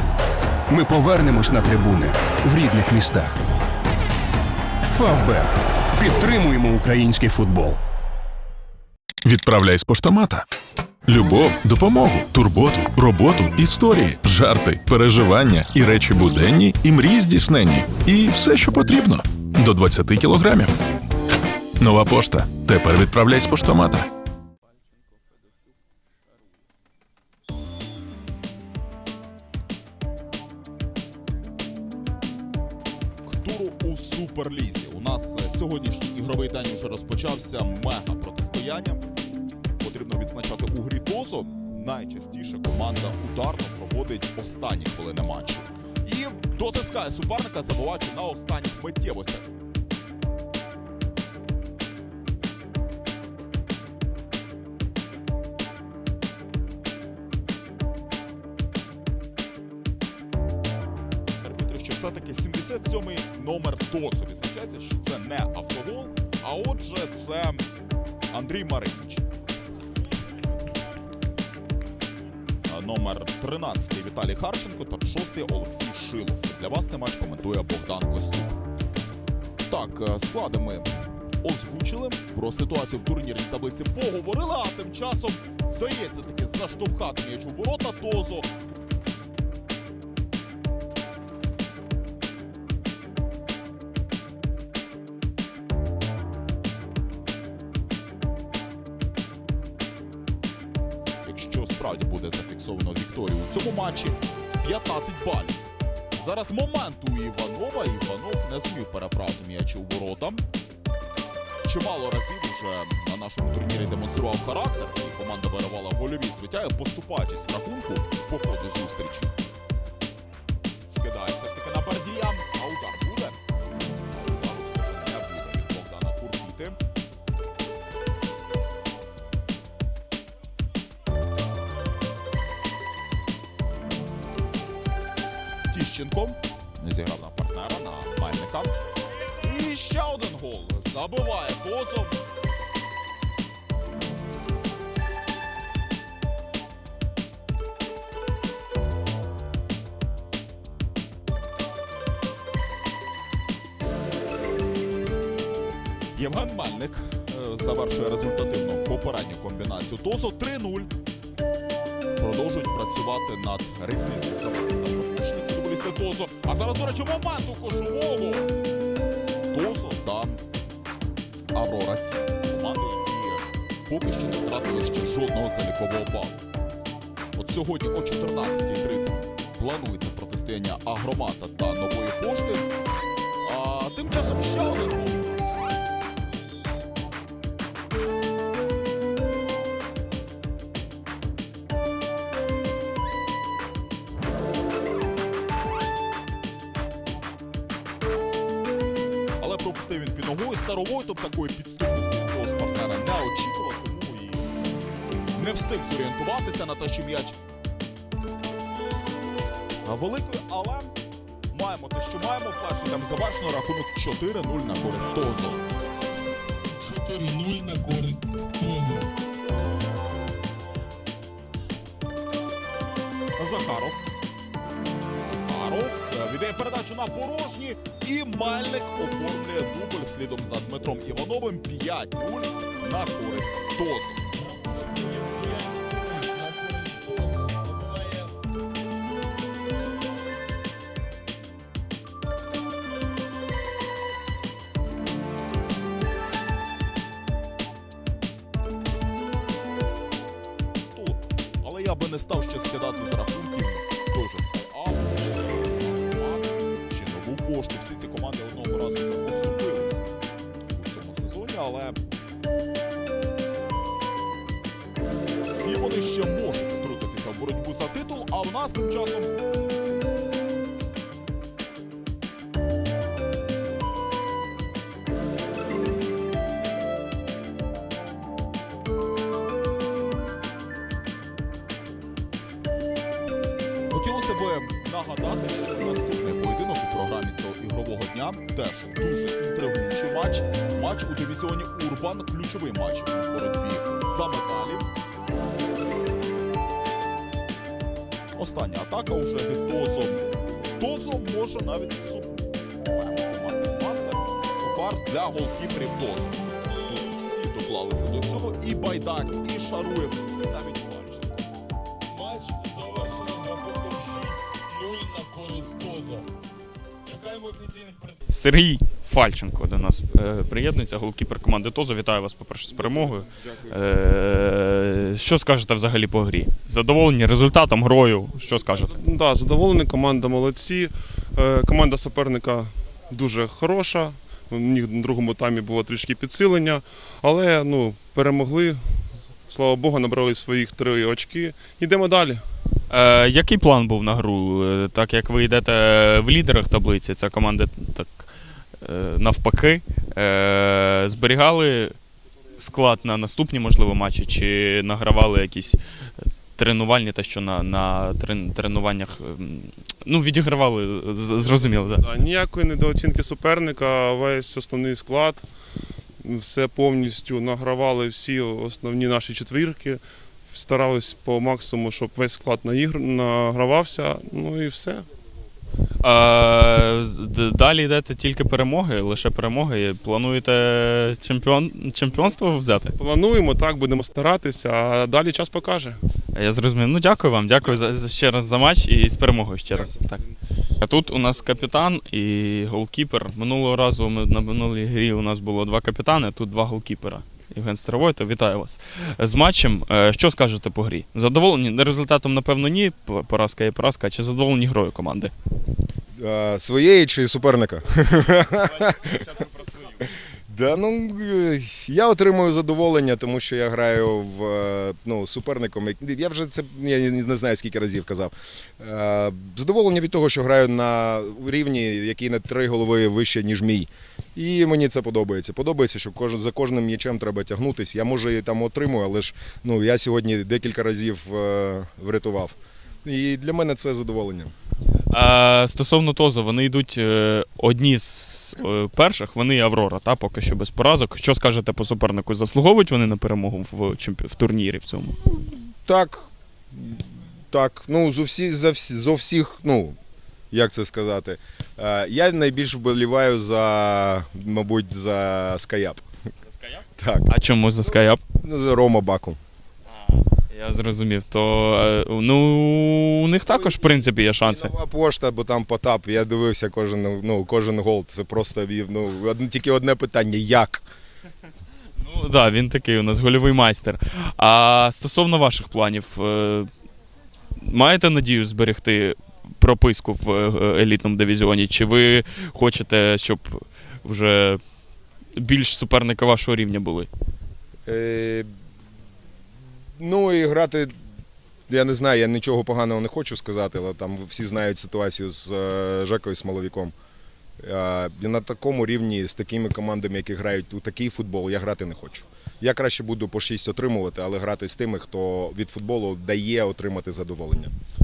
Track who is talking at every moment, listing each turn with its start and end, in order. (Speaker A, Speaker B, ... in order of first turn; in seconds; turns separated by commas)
Speaker A: 0.7-3.4, Speaker A: 4.9-7.8, Speaker B: 9.2-10.4, Speaker B: 11.1-20.7, Speaker B: 21.8-24.1, Speaker C: 33.3-39.1, Speaker C: 39.8-49.5, Speaker C: 61.4-67.7, Speaker C: 68.3-69.2, Speaker C: 72.7-78.6, Speaker C: 79.7-88.5, Speaker C: 101.2-110.4, Speaker C: 111.6-119.4, Speaker C: 120.9-123.4, Speaker C: 124.0-126.8, Speaker C: 135.7-138.8, Speaker C: 139.4-142.2, Speaker C: 156.1-160.9, Speaker C: 162.2-168.5, Speaker C: 169.5-170.4, Speaker C: 171.5-176.4, Speaker C: 177.3-182.7, Speaker C: 183.4-185.7, Speaker C: 199.4-204.5, Speaker C: 205.3-207.4, Speaker C: 209.8-210.9, Speaker C: 211.5-215.6, Speaker D: 216.8-219.1, Speaker C: 223.4-224.0, Speaker C: 225.2-234.2, Speaker D: 234.3-238.3, Speaker C: 250.9-260.1, Speaker C: 260.7-262.0, Speaker C: 265.5-269.3, Speaker C: 283.9-294.9, Speaker C: 298.4-311.5, Speaker D: 312.1-316.3, Speaker D: 317.1-318.2, Speaker E: 318.3-329.0, Speaker F: 329.0-338.8, Speaker F: 339.5-342.4, Speaker E: 342.9-351.9, Speaker E: 352.6-355.8, Speaker E: 356.6-362.0, Speaker F: 362.0-365.4, Speaker F: 366.2-375.1, Speaker E: 376.0-382.9, Speaker F: 383.0-386.0, Speaker E: 386.3-390.2, Speaker E: 390.8-405.3, Speaker G: 406.2-432.5, Speaker G: 433.0-434.5, Speaker E: 435.1-445.1, Speaker G: 445.8-449.9, Speaker G: 450.5-456.0, Speaker E: 456.6-458.2, Speaker G: 457.0-457.3, Speaker G: 457.9-459.4, Speaker E: 459.9-464.7, Speaker G: 463.5-470.8, Speaker E: 472.0-476.7, Speaker E: 477.6-484.6, Speaker E: 485.4-487.1, Speaker G: 487.9-488.5, Speaker G: 490.0-490.9, Speaker G: 491.7-496.9, Speaker G: 497.6-507.7